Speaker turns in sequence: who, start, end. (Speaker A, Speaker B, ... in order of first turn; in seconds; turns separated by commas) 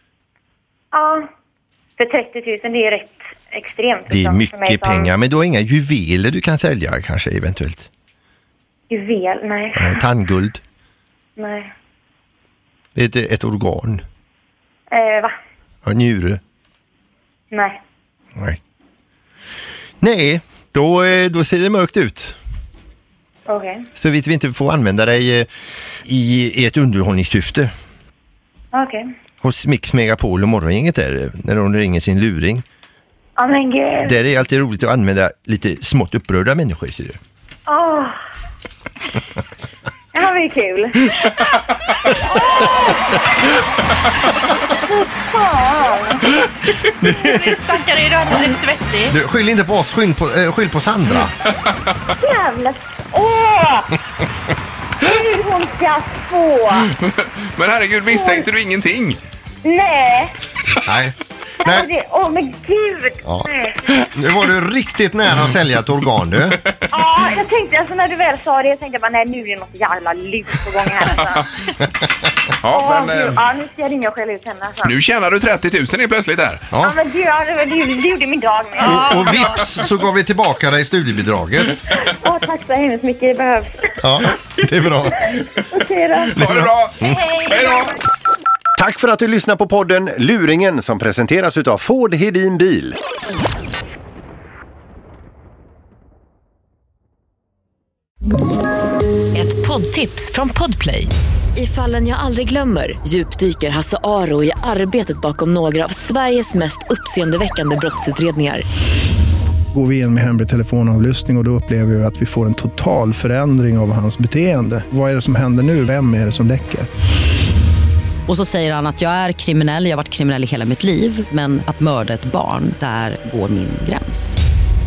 Speaker A: 0.9-1.3, Speaker A: 2.0-5.1, Speaker B: 4.1-7.9, Speaker A: 8.9-10.0, Speaker B: 9.7-10.6, Speaker A: 11.4-11.7, Speaker B: 12.9-14.0, Speaker A: 14.9-15.3, Speaker B: 15.8-16.4, Speaker A: 17.5-17.8, Speaker B: 20.0-22.4, Speaker A: 23.5-23.9, Speaker B: 23.9-25.5, Speaker B: 26.1-27.7, Speaker A: 28.7-29.0, Speaker B: 29.4-32.6, Speaker A: 33.4-34.2, Speaker B: 34.0-37.2, Speaker A: 37.7-38.2, Speaker A: 40.1-41.1, Speaker A: 42.3-43.0, Speaker A: 44.7-46.3, Speaker C: 47.0-49.1, Speaker B: 47.0-47.6, Speaker B: 49.1-51.3, Speaker A: 52.2-54.0, Speaker A: 55.0-56.9, Speaker D: 57.0-59.2, Speaker A: 58.1-58.5, Speaker A: 59.6-60.3, Speaker B: 60.8-61.9, Speaker A: 61.6-63.8, Speaker B: 63.2-66.6, Speaker A: 66.9-71.5, Speaker D: 72.6-73.4, Speaker A: 72.7-74.9, Speaker D: 74.8-76.7, Speaker A: 76.8-79.3, Speaker B: 78.8-81.8, Speaker A: 82.0-83.9, Speaker B: 84.0-85.2, Speaker A: 85.7-86.6, Speaker D: 86.3-87.9, Speaker B: 87.0-87.3, Speaker E: 88.8-93.0, Speaker F: 99.3-108.6, Speaker G: 109.7-116.9, Speaker H: 118.3-124.4